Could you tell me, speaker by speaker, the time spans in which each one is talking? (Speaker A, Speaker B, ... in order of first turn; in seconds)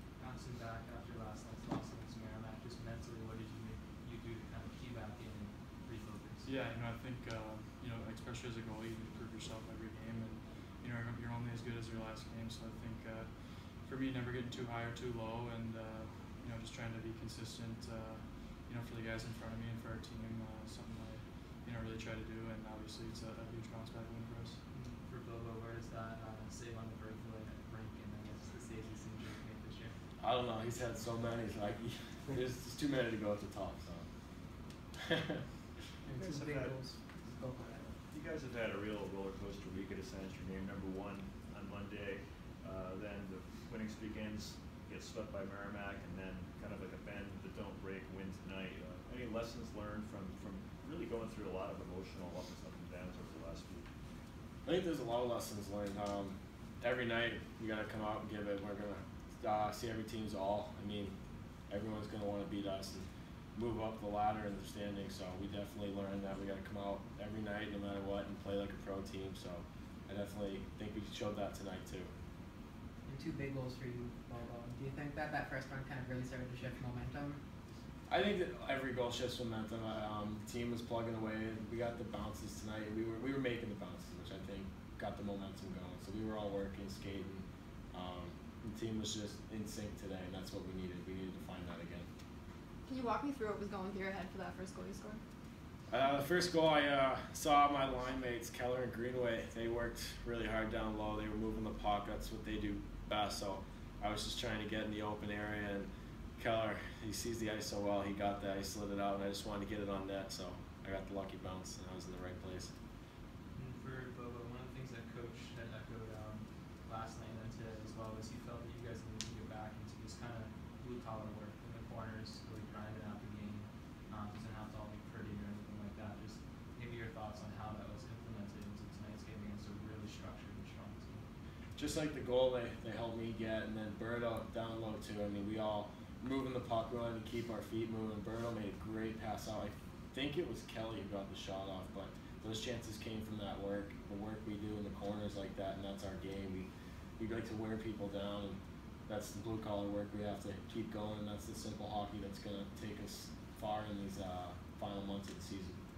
Speaker A: 0.1-6.5, 24.7-30.0, 113.5-131.3
Speaker B: 6.4-24.6
Speaker C: 30.2-34.1, 54.6-61.1, 61.7-72.1, 78.1-92.1, 95.9-112.7, 131.7-155.8
Speaker D: 36.0-37.9, 73.0-77.4
Speaker E: 36.1-37.2, 37.8-53.9
Speaker F: 92.8-95.2